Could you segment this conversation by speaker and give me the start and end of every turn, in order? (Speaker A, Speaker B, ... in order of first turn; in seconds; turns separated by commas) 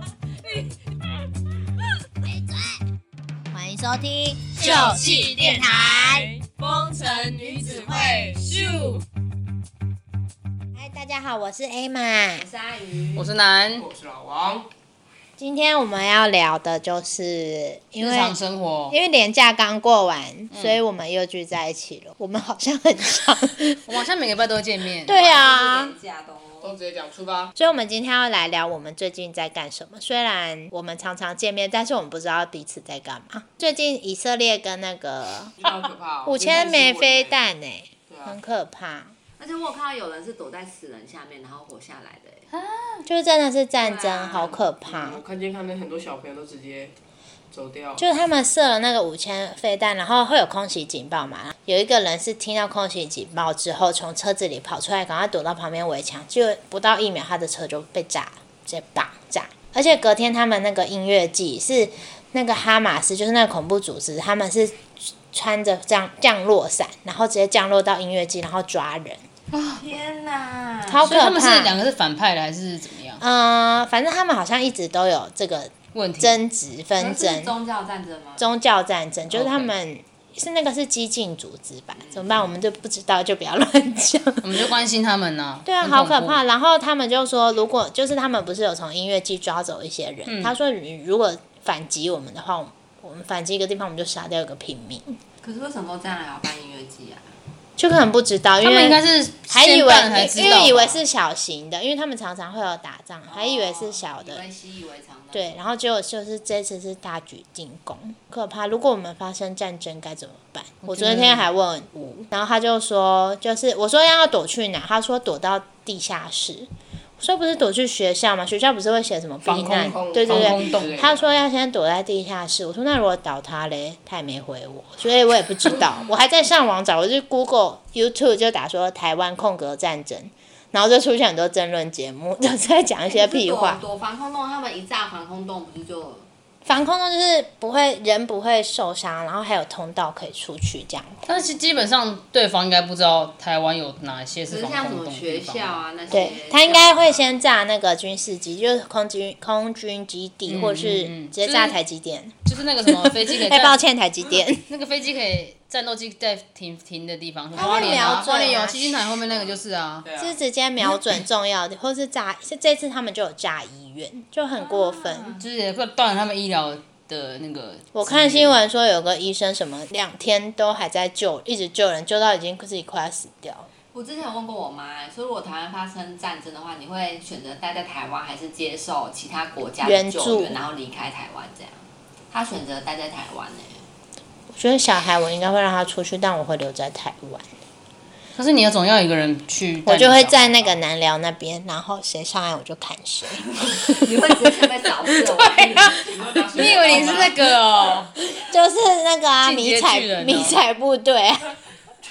Speaker A: 3.5-6.3, Speaker B: 4.6-9.0, Speaker A: 10.7-12.4, Speaker C: 12.4-13.3, Speaker D: 13.2-13.9, Speaker B: 13.7-14.7, Speaker A: 15.4-18.4, Speaker D: 18.0-18.9, Speaker A: 18.9-24.0, Speaker D: 20.5-20.8, Speaker D: 23.9-25.2, Speaker A: 25.0-25.9, Speaker C: 25.1-26.7, Speaker B: 26.6-27.5, Speaker A: 27.6-35.5, Speaker B: 35.6-37.3, Speaker A: 36.2-39.1, Speaker B: 38.1-38.4, Speaker C: 39.4-42.5, Speaker D: 42.5-43.0, Speaker A: 43.0-45.2, Speaker C: 43.8-44.6, Speaker B: 44.8-46.9, Speaker B: 47.5-48.0, Speaker A: 48.0-69.2, Speaker D: 69.5-69.8, Speaker C: 69.8-71.1, Speaker A: 70.9-71.8, Speaker D: 71.0-73.2, Speaker A: 73.2-77.5, Speaker D: 75.9-76.4, Speaker C: 77.0-78.5, Speaker A: 78.4-84.6, Speaker D: 79.3-79.7, Speaker C: 82.0-82.2, Speaker D: 84.4-86.4, Speaker A: 85.7-95.2, Speaker D: 90.3-90.5, Speaker C: 95.4-97.3, Speaker A: 97.8-104.4, Speaker D: 98.6-101.0, Speaker C: 100.3-100.8, Speaker C: 103.3-105.6, Speaker A: 105.3-133.8, Speaker D: 110.8-111.5, Speaker B: 119.4-121.3, Speaker D: 119.5-120.9, Speaker C: 133.1-136.3, Speaker A: 136.6-141.2, Speaker D: 141.2-145.8, Speaker C: 144.5-147.1, Speaker A: 146.1-154.6, Speaker D: 150.5-151.8, Speaker D: 152.4-153.8, Speaker D: 154.7-160.1, Speaker A: 157.5-159.0, Speaker C: 157.6-158.2, Speaker B: 159.3-160.3, Speaker A: 160.2-165.4, Speaker C: 164.6-165.4, Speaker D: 165.3-168.6, Speaker A: 167.9-173.7, Speaker C: 173.9-183.8, Speaker A: 179.8-180.6, Speaker A: 184.5-187.5, Speaker D: 188.3-190.7, Speaker A: 189.8-194.3, Speaker C: 193.8-197.3, Speaker D: 195.4-198.1, Speaker B: 195.9-197.5, Speaker A: 198.3-201.5, Speaker D: 199.4-200.6